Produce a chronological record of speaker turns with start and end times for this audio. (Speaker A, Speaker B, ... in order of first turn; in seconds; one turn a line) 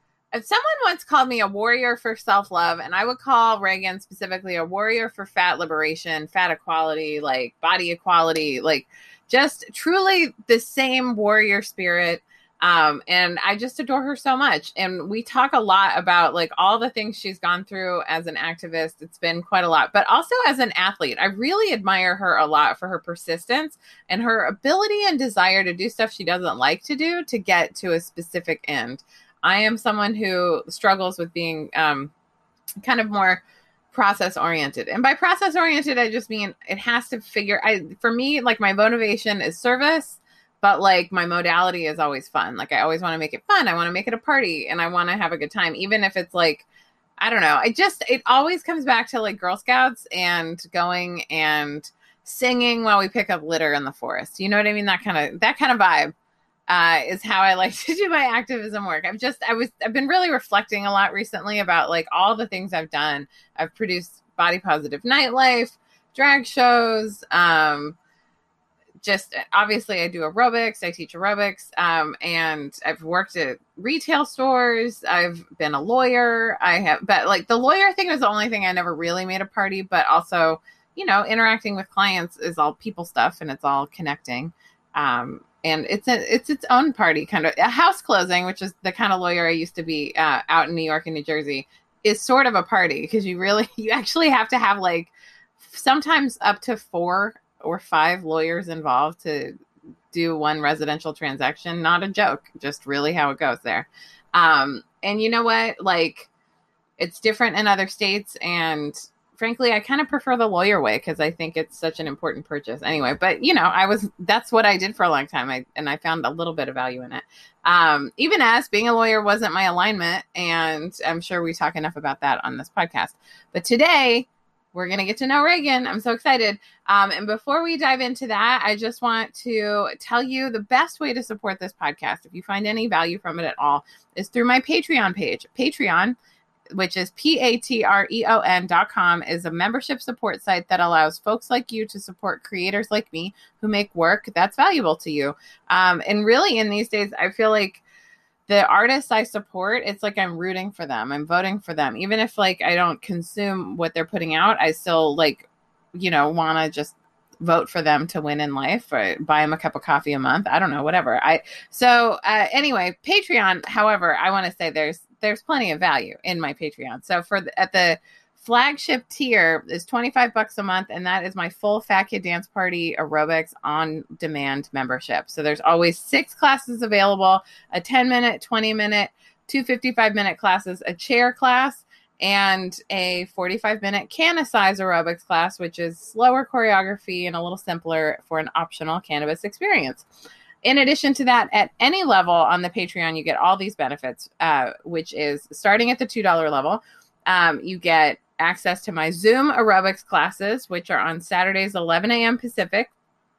Speaker A: 0.3-32.1
Speaker A: 32.8-46.7
Speaker A: 47.2-56.1
Speaker A: 56.7-68.0
Speaker A: 69.0-99.6
Speaker A: 100.1-106.3
Speaker A: 107.0-136.2
Speaker A: 136.7-147.8
Speaker A: 148.5-190.1
Speaker A: 190.6-202.9